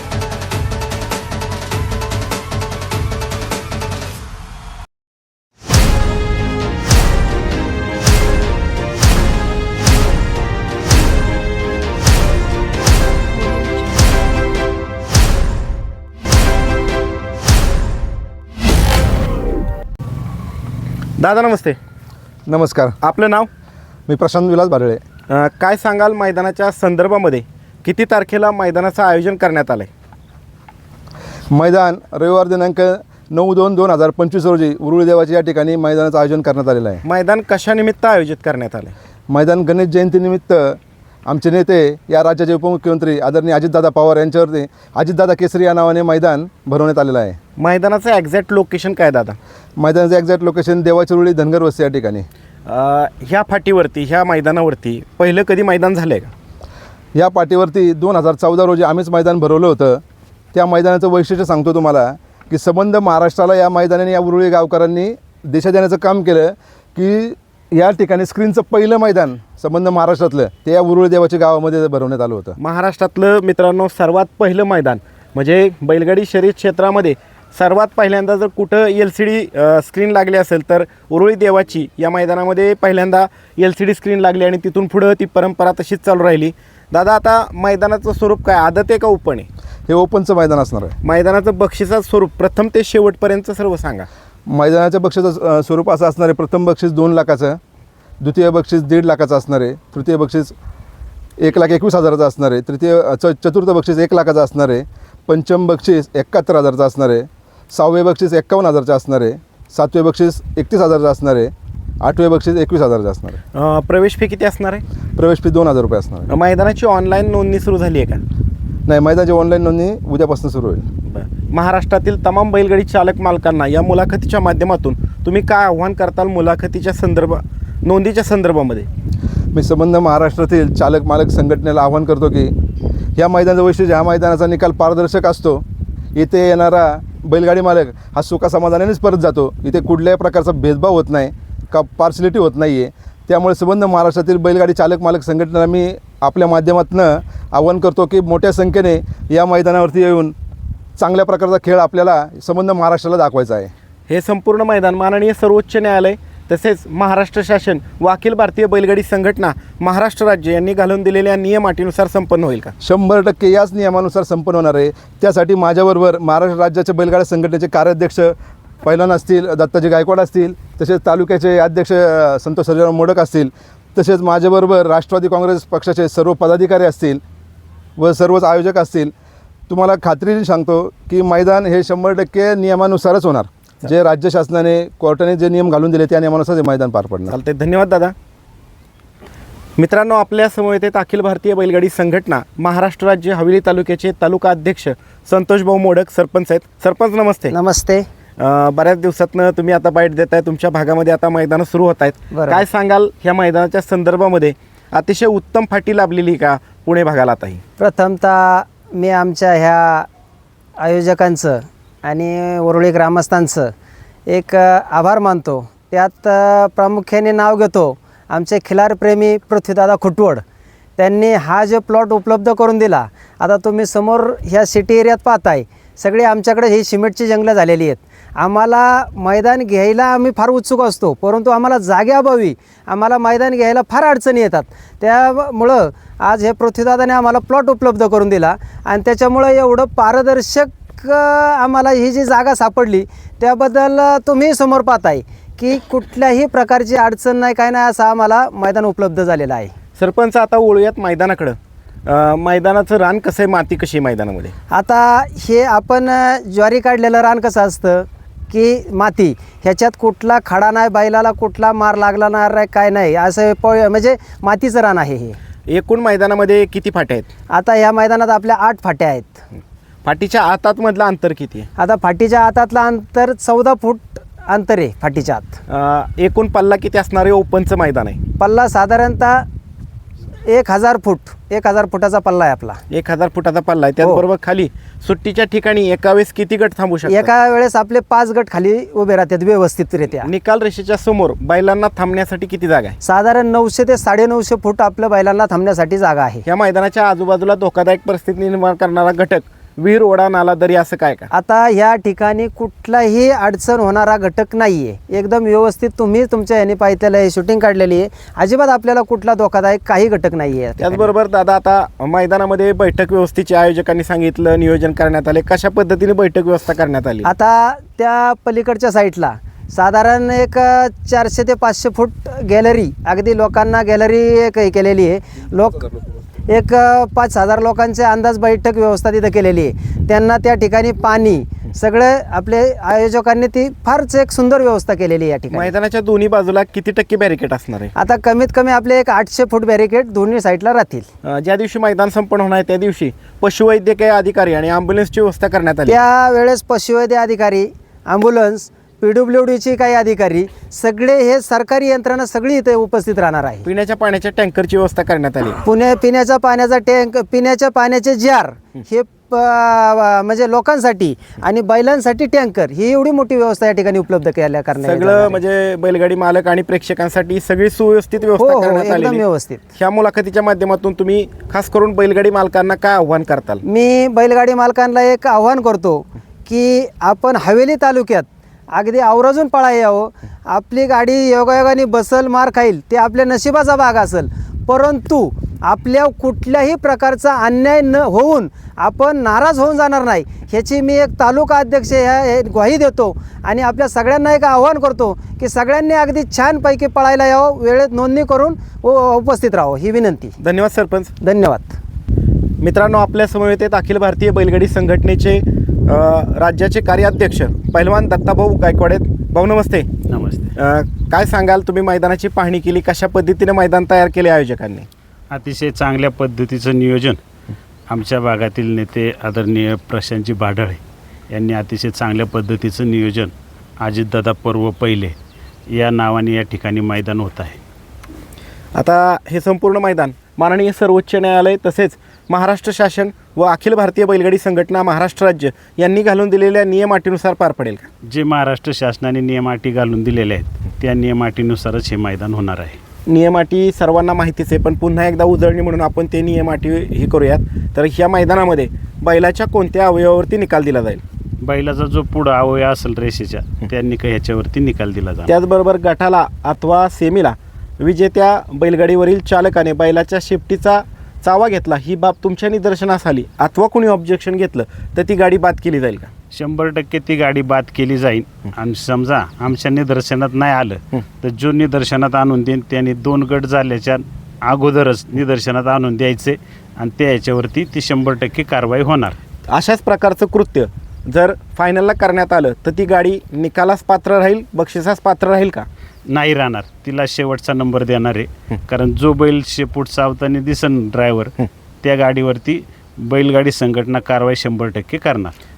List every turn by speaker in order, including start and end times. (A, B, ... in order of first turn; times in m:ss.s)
0:21.2-0:21.8 A
0:22.5-0:23.0 B
0:23.0-0:23.5 A
0:24.1-0:25.0 B
0:25.3-0:29.9 A
0:31.5-0:37.0 B
0:37.0-0:38.9 A
0:39.3-0:47.4 B
0:47.6-0:49.4 A
0:49.8-0:52.2 B
0:52.6-0:56.3 A
0:57.1-1:00.0 B
1:00.5-1:12.6 B
1:12.6-1:29.5 A
1:29.9-1:31.0 B
1:31.0-1:34.1 A
1:34.5-1:37.6 B
1:38.2-1:40.5 B
1:41.4-1:53.4 B
1:53.5-1:54.8 A
1:55.2-1:56.3 B
1:56.3-1:58.2 A
1:58.9-2:00.8 B
2:01.0-2:08.9 A
2:09.5-2:12.5 B
2:13.2-2:15.6 B
2:16.1-2:30.3 B
2:31.0-2:33.7 B
2:34.1-2:42.7 A
2:42.8-2:57.2 B
2:58.0-2:59.1 B
2:59.7-3:07.4 B
3:07.3-3:08.1 A
3:09.8-3:17.5 A
3:17.5-3:18.0 C
3:18.4-3:27.6 A
3:22.3-3:22.6 C
3:27.8-3:30.1 C
3:30.8-3:33.7 C
3:34.3-3:40.4 C
3:41.0-4:09.7 C
4:10.0-4:14.5 A
4:14.7-4:25.4 C
4:25.7-4:27.3 A
4:27.5-4:29.4 C
4:30.0-4:31.7 A
4:31.8-4:35.6 C
4:35.7-4:38.2 A
4:38.4-4:39.4 C
4:40.5-4:42.8 C
4:42.9-4:47.3 A
4:47.0-4:50.3 C
4:50.2-4:53.0 A
4:53.0-4:56.4 C
4:56.4-5:01.3 A
5:01.3-5:11.1 C
5:10.8-5:17.3 A
5:17.2-5:35.7 C
5:35.5-5:37.9 A
5:38.0-5:41.1 C
5:41.2-5:46.0 A
5:45.9-5:53.6 C
5:53.6-5:55.6 A
5:55.6-6:05.4 C
6:04.8-6:09.2 A
6:08.4-6:09.6 C
6:09.8-6:13.6 A
6:13.6-6:40.3 C
6:40.4-6:41.1 A
6:41.2-6:41.8 C
6:42.6-6:49.9 A
6:50.1-6:50.5 D
6:50.5-6:54.9 A
6:55.3-6:57.2 D
6:57.9-7:00.8 D
7:01.3-7:05.1 D
7:05.7-7:07.6 D
7:08.8-7:17.9 A
7:18.1-7:22.8 D
7:23.1-7:31.0 A
7:31.4-7:35.3 D
7:35.3-7:46.1 A
7:46.3-7:59.2 D
7:59.5-8:05.7 A
8:06.1-8:15.3 D